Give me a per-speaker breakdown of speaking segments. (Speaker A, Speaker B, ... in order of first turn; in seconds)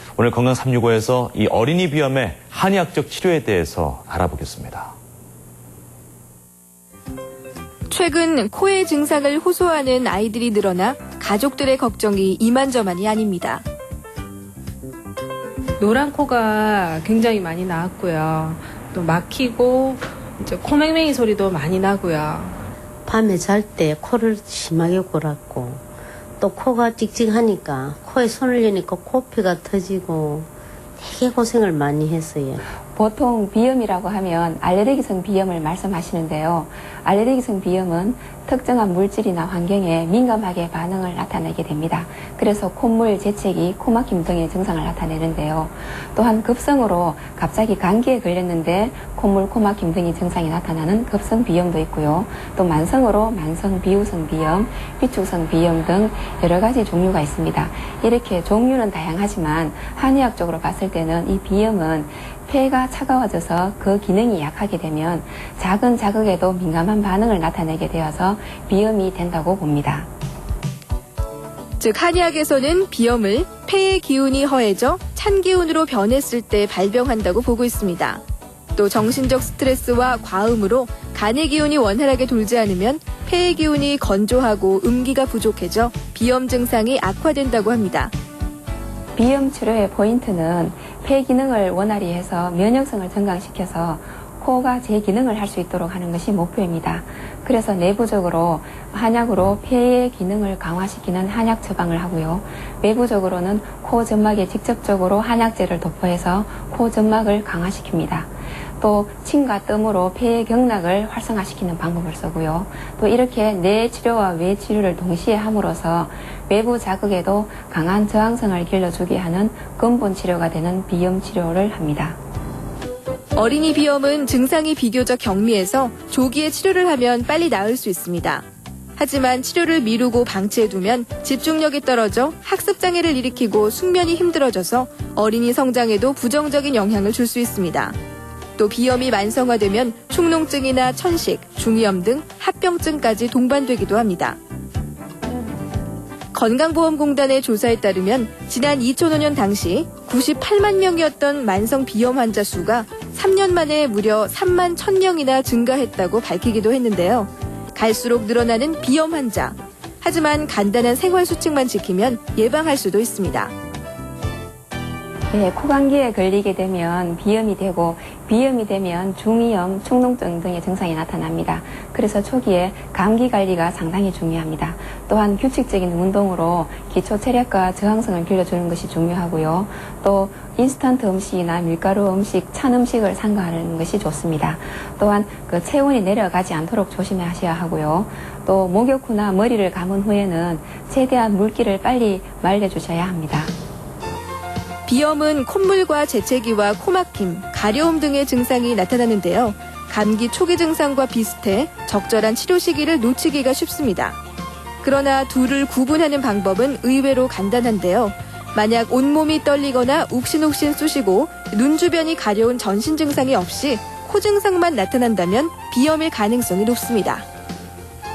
Speaker A: 0.2-4.9
Speaker B: 7.9-13.6, 71.8-78.2, 78.7-88.1, 123.3-128.4, 129.0-137.9, 138.6-144.4, 146.3-163.5, 194.8-204.2, 204.8-217.2
Speaker C: 15.8-22.6
Speaker D: 23.0-25.8, 26.4-32.6
Speaker E: 32.9-70.1, 89.2-122.2, 165.3-193.5